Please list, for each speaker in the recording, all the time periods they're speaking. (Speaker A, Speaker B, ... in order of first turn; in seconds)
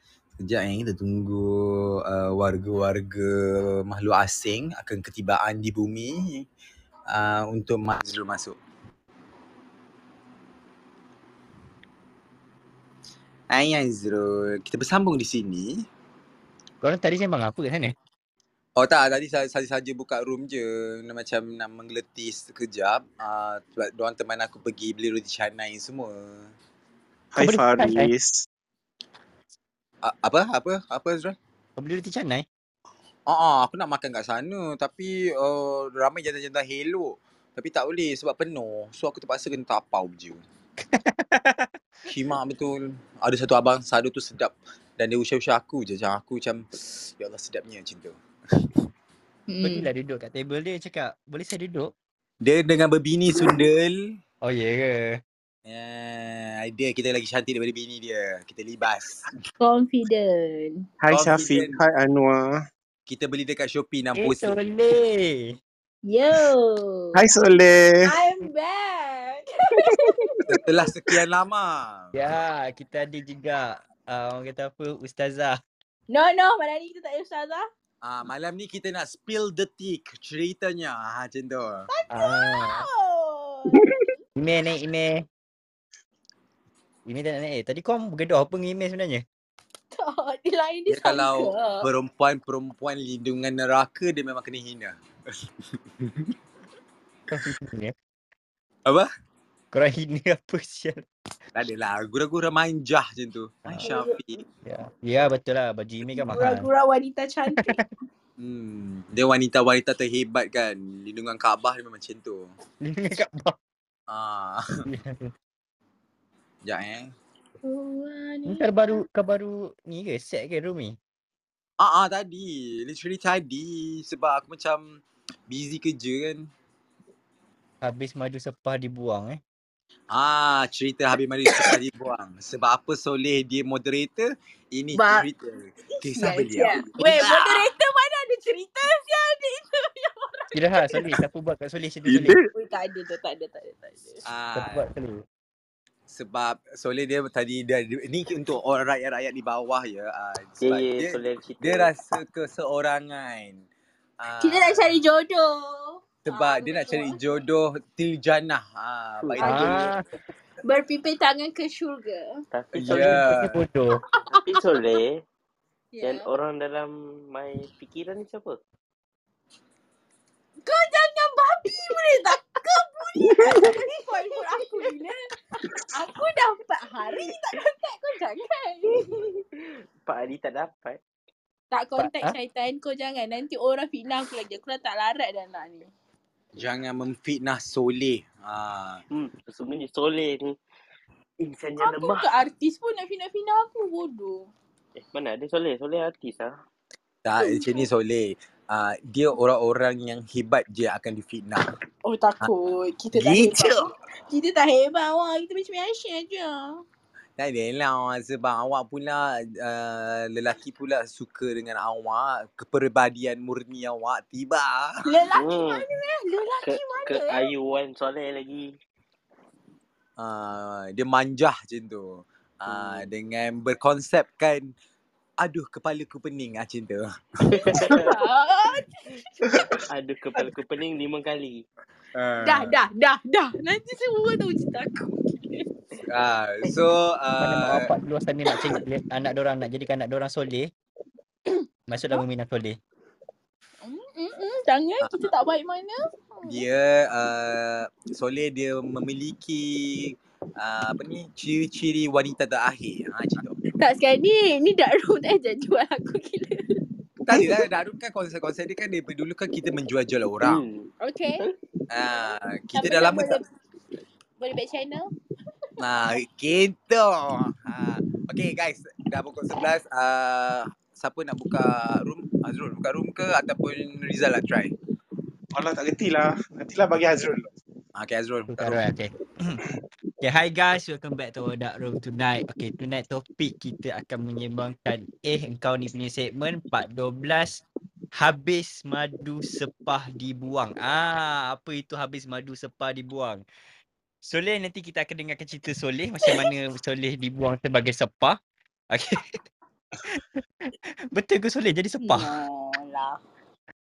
Speaker A: 0.4-6.5, 7.1-8.6, 13.5-15.8, 18.8-26.5, 30.0-31.4, 33.3-40.4, 42.1-48.6, 52.4-54.0, 55.7-59.3, 61.1-61.8, 63.1-64.6, 70.5-72.1, 78.0-81.9, 90.9-95.0, 95.7-96.3, 101.5-104.4, 108.4-112.5, 114.1-114.6, 116.7-117.1, 121.8-126.5, 130.1-137.7, 144.2-144.9, 146.1-153.7, 154.2-154.9, 156.2-159.9, 162.8-163.6, 186.6-189.0, 197.2-201.7, 203.1-203.9, 207.4-215.0, 220.2-224.7, 225.4-227.7, 232.2-232.8, 236.1-237.9, 245.0-245.3, 246.5-253.8, 257.3-260.6, 261.9-263.4, 265.8-274.7, 278.0-278.8
Speaker B: 16.8-17.9, 27.4-28.1, 31.8-32.5, 40.9-41.7, 49.6-51.9, 54.4-55.2, 64.2-65.6, 72.1-75.6, 82.1-82.8, 84.4-85.2, 87.1-89.2, 97.3-97.9, 99.7-101.0, 104.7-106.7, 107.5-107.9, 112.8-113.6, 114.9-115.3, 118.5-121.0, 127.8-129.4, 140.5-142.4, 144.6-145.2, 159.4-160.0, 162.9-164.0, 182.0-182.3, 237.4-240.7, 241.9-242.8, 278.5-279.6, 280.2-287.6, 288.1-293.4, 294.2-298.4, 298.9-299.4, 300.1-302.4
Speaker C: 27.4-28.5, 61.0-62.6, 67.2-68.1, 142.1-142.4, 275.5-277.5
Speaker D: 49.5-49.9, 59.6-60.9, 66.1-67.2, 68.0-70.3, 76.1-77.7, 81.9-83.8, 89.9-91.9, 103.8-104.2, 106.1-107.8, 117.6-119.0, 134.9-135.3, 136.1-141.1, 142.5-144.2, 154.4-157.2, 159.4-159.8, 160.7-162.3, 165.9-166.3, 170.7-175.3, 175.9-179.1, 181.7-185.9, 191.8-194.5, 197.4-197.8, 202.1-206.8, 215.0-217.5, 227.9-229.1, 232.4-235.6, 243.8-246.6, 253.8-256.6, 261.0-261.4, 262.7-263.4, 264.4-265.1, 302.0-303.2
Speaker E: 150.6-151.9, 159.2-159.5, 162.5-163.3, 164.4-165.2, 166.0-168.6, 180.1-181.0, 189.1-190.6, 191.4-192.4, 195.0-196.5, 215.4-215.8, 216.6-218.7, 222.7-223.1, 227.5-228.2, 229.9-231.6, 260.4-261.5